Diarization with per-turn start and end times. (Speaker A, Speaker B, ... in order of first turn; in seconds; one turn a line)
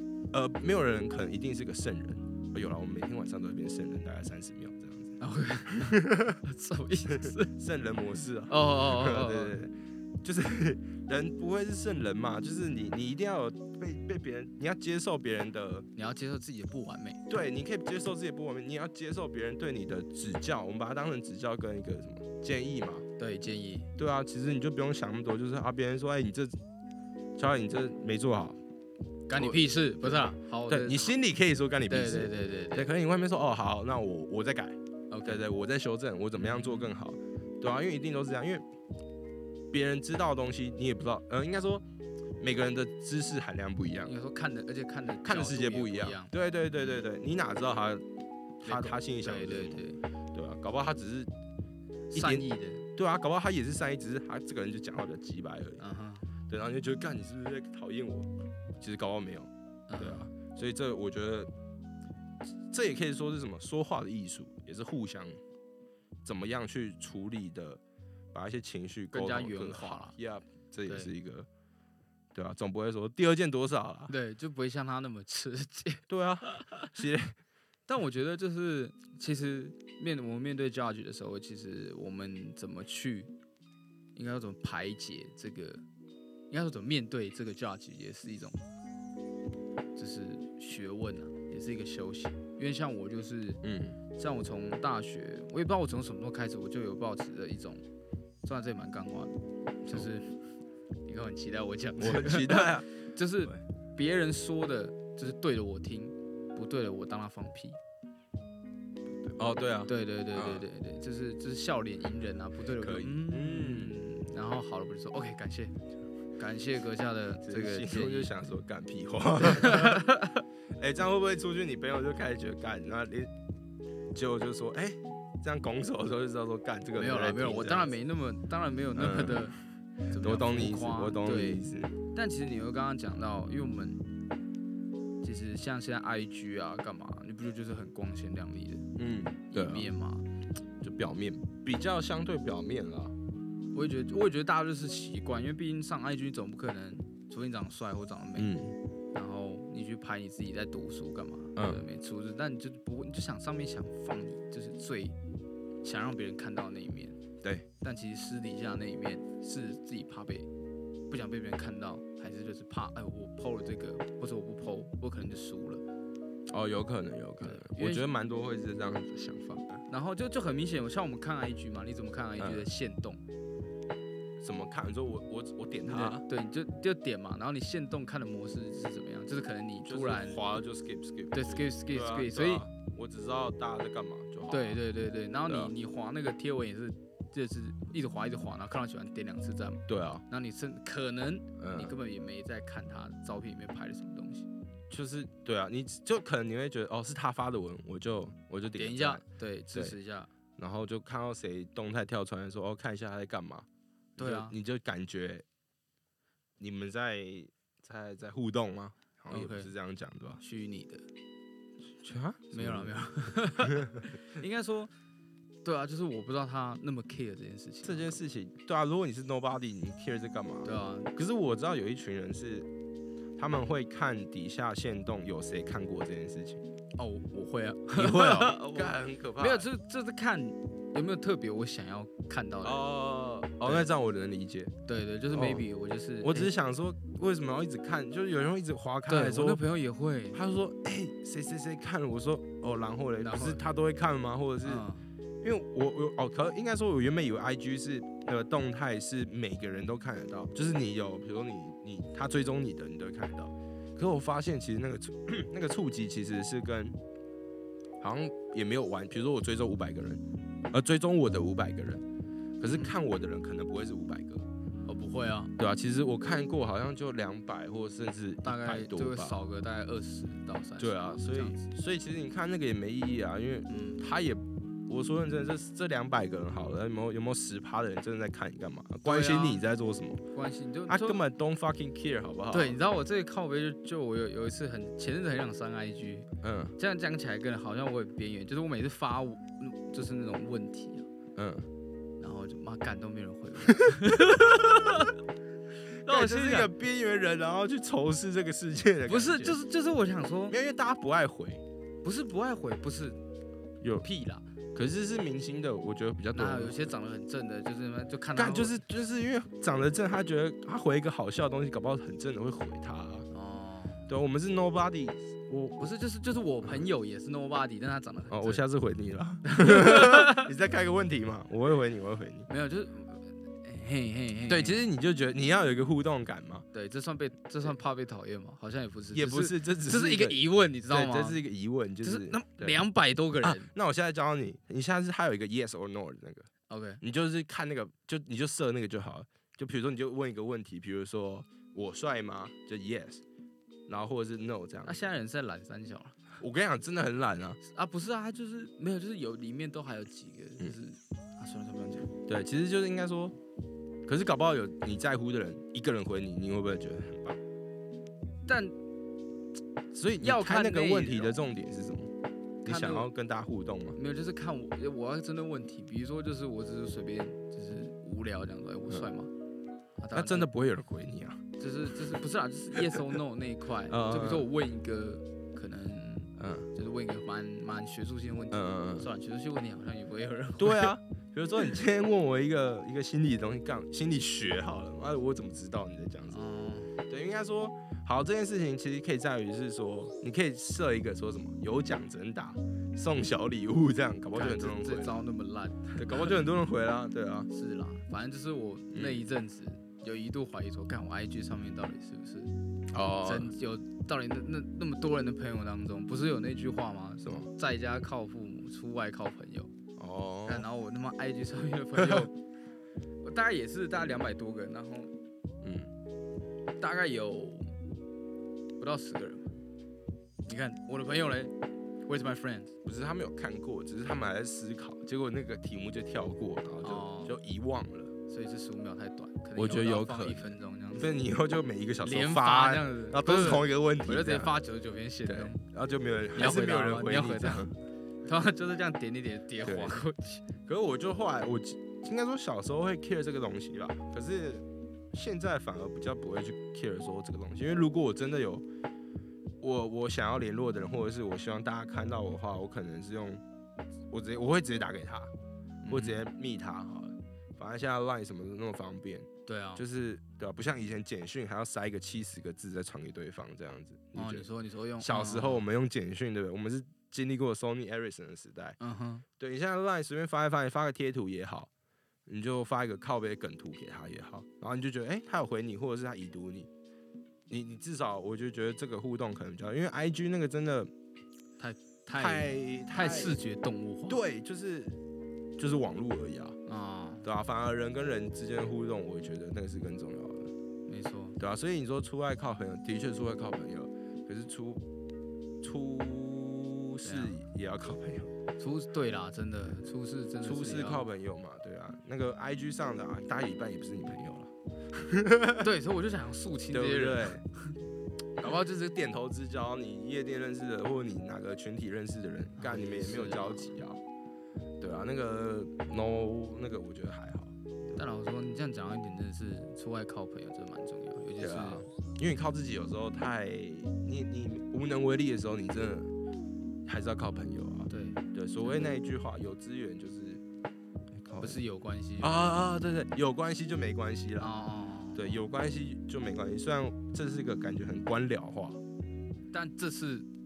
Speaker A: 0.3-5.2
Speaker B: 5.2-7.5
Speaker A: 5.7-6.4
Speaker A: 7.1-15.9
Speaker B: 8.5-9.6
Speaker B: 15.9-17.3
Speaker A: 17.3-23.1
Speaker B: 23.2-23.9
Speaker A: 24.0-26.6
Speaker A: 27.4-28.6
Speaker B: 29.3-31.1
Speaker A: 29.4-38.6
Speaker B: 31.9-32.9
Speaker B: 35.1-35.4
Speaker B: 36.4-36.9
Speaker A: 39.7-41.8
Speaker A: 42.4-44.1
Speaker B: 44.0-46.3
Speaker A: 45.2-48.0
Speaker A: 48.6-51.3
Speaker B: 48.6-50.0
Speaker B: 52.1-52.9
Speaker A: 52.1-55.8
Speaker B: 55.8-56.3
Speaker A: 56.5-58.3
Speaker A: 58.8-61.5
Speaker B: 59.9-60.3
Speaker A: 62.7-65.4
Speaker A: 66.2-67.8
Speaker A: 68.3-71.5
Speaker B: 69.1-70.1
Speaker B: 70.8-71.1
Speaker A: 72.3-74.1
Speaker B: 74.1-76.9
Speaker A: 76.1-77.4
Speaker B: 77.9-83.3
Speaker B: 84.2-85.8
Speaker B: 86.5-88.6
Speaker B: 90.0-93.6
Speaker A: 93.6-94.0
Speaker B: 94.1-97.8
Speaker B: 98.4-100.4
Speaker B: 101.0-107.8
Speaker A: 102.0-102.9
Speaker A: 109.2-110.7
Speaker B: 109.9-115.7
Speaker A: 112.8-114.0
Speaker B: 116.4-118.3
Speaker A: 117.4-120.1
Speaker B: 119.4-120.4
Speaker A: 120.8-123.3
Speaker A: 124.1-127.9
Speaker B: 127.0-129.6
Speaker A: 128.9-129.5
Speaker B: 130.1-134.0
Speaker A: 130.1-131.9
Speaker B: 135.2-138.9
Speaker A: 139.0-139.9
Speaker B: 139.5-140.2
Speaker A: 140.8-143.1
Speaker B: 143.7-148.5
Speaker A: 148.3-148.7
Speaker B: 149.1-155.2
Speaker A: 151.6-151.8
Speaker B: 155.8-157.2
Speaker B: 157.8-160.5
Speaker B: 161.1-165.8
Speaker A: 166.5-169.8
Speaker B: 167.4-168.1
Speaker B: 169.9-173.2
Speaker A: 172.4-172.7
Speaker A: 174.4-176.2
Speaker B: 175.8-180.6
Speaker A: 179.8-184.8
Speaker B: 181.3-182.7
Speaker B: 184.5-194.5
Speaker A: 185.5-185.7
Speaker A: 189.9-190.2
Speaker A: 191.6-191.9
Speaker A: 194.9-200.0
Speaker B: 198.7-200.3
Speaker A: 200.6-205.4
Speaker B: 204.2-204.5
Speaker A: 206.6-210.4
Speaker B: 209.3-209.7
Speaker B: 210.4-211.0
Speaker A: 212.0-212.9
Speaker B: 212.5-214.9
Speaker B: 215.6-218.2
Speaker A: 217.8-222.7
Speaker B: 220.6-221.1
Speaker A: 223.3-226.6
Speaker B: 227.0-232.8
Speaker A: 227.9-229.7
Speaker A: 232.6-234.7
Speaker B: 233.6-233.9
Speaker B: 234.8-236.5
Speaker A: 235.3-235.6
Speaker A: 236.2-239.6
Speaker B: 239.1-240.4
Speaker A: 240.3-244.8
Speaker B: 243.2-243.6
Speaker B: 244.6-245.1
Speaker A: 245.4-257.0
Speaker A: 258.0-262.0
Speaker A: 262.6-264.4
Speaker B: 262.6-262.9
Speaker B: 264.9-265.5
Speaker A: 265.6-269.4
Speaker B: 268.4-271.6
Speaker A: 270.8-280.2
Speaker B: 273.7-274.0
Speaker B: 279.0-279.6
Speaker B: 280.3-281.2
Speaker A: 280.9-282.8
Speaker B: 282.5-291.1
Speaker A: 286.4-286.7
Speaker A: 291.4-291.7
Speaker B: 292.2-295.1
Speaker A: 293.8-294.9
Speaker B: 296.0-296.7
Speaker A: 296.0-299.6
Speaker B: 299.1-300.6
Speaker A: 300.5-301.6
Speaker B: 302.0-303.2
Speaker A: 303.8-304.1
Speaker B: 304.0-304.4
Speaker A: 304.7-306.9
Speaker B: 306.3-308.8
Speaker A: 308.3-313.2
Speaker B: 313.3-314.1
Speaker A: 314.1-315.9
Speaker B: 315.8-318.6
Speaker A: 318.3-322.5
Speaker B: 319.4-320.5
Speaker B: 322.5-324.8
Speaker A: 324.5-326.7
Speaker B: 326.7-331.4
Speaker A: 329.1-332.8
Speaker B: 332.0-333.7
Speaker A: 333.4-336.5
Speaker B: 336.7-337.0
Speaker A: 337.0-343.2
Speaker A: 343.9-345.1
Speaker B: 344.8-346.2
Speaker A: 346.4-347.6
Speaker B: 347.6-352.1
Speaker A: 352.3-353.4
Speaker A: 354.1-357.4
Speaker B: 358.5-358.7
Speaker A: 359.9-362.1
Speaker B: 360.2-361.4
Speaker B: 362.6-363.1
Speaker A: 362.6-364.0
Speaker B: 363.9-369.3
Speaker B: 370.0-370.5
Speaker A: 370.1-371.4
Speaker B: 371.6-380.9
Speaker A: 372.7-373.1
Speaker A: 373.9-374.5
Speaker A: 376.4-376.7
Speaker A: 378.5-379.1
Speaker A: 380.6-386.4
Speaker B: 386.3-387.0
Speaker A: 387.1-395.2
Speaker B: 394.3-396.4
Speaker A: 395.9-397.5
Speaker B: 397.5-402.5
Speaker A: 398.9-399.2
Speaker A: 402.9-403.5
Speaker B: 403.2-409.7
Speaker A: 407.2-407.5
Speaker A: 410.0-410.6
Speaker B: 410.4-412.3
Speaker A: 412.0-412.3
Speaker B: 413.2-415.1
Speaker A: 415.6-415.9
Speaker B: 416.8-417.7
Speaker B: 418.8-419.5
Speaker B: 420.4-421.5
Speaker B: 422.1-422.7
Speaker A: 422.8-428.1
Speaker B: 426.8-427.4
Speaker B: 428.3-431.1
Speaker A: 429.6-434.5
Speaker B: 432.0-435.6
Speaker A: 435.2-437.7
Speaker B: 436.3-437.6
Speaker B: 438.2-440.5
Speaker A: 439.6-440.0
Speaker A: 440.6-448.6
Speaker A: 449.6-453.4
Speaker A: 454.1-455.3
Speaker B: 455.8-456.2
Speaker A: 455.9-464.5
Speaker B: 459.4-459.8
Speaker B: 464.1-465.6
Speaker A: 465.0-468.8
Speaker B: 468.8-469.2
Speaker A: 469.4-471.7
Speaker A: 472.2-476.7
Speaker A: 477.5-480.9
Speaker B: 481.6-484.2
Speaker A: 482.1-483.4
Speaker A: 484.1-485.0
Speaker A: 485.6-486.6
Speaker B: 486.7-487.3
Speaker A: 487.2-490.5
Speaker B: 490.9-491.4
Speaker A: 491.4-494.8
Speaker A: 495.6-498.3
Speaker B: 497.0-497.3
Speaker B: 498.6-501.1
Speaker A: 500.4-505.7
Speaker B: 505.6-507.7
Speaker A: 506.7-507.4
Speaker A: 508.4-514.0
Speaker B: 512.6-513.7
Speaker A: 514.8-518.0
Speaker B: 518.0-521.9
Speaker A: 521.4-526.1
Speaker A: 526.9-530.4
Speaker B: 527.9-528.9
Speaker A: 531.1-531.6
Speaker B: 531.4-532.6
Speaker A: 532.2-534.5
Speaker B: 534.4-535.4
Speaker A: 535.1-538.8
Speaker B: 539.5-540.3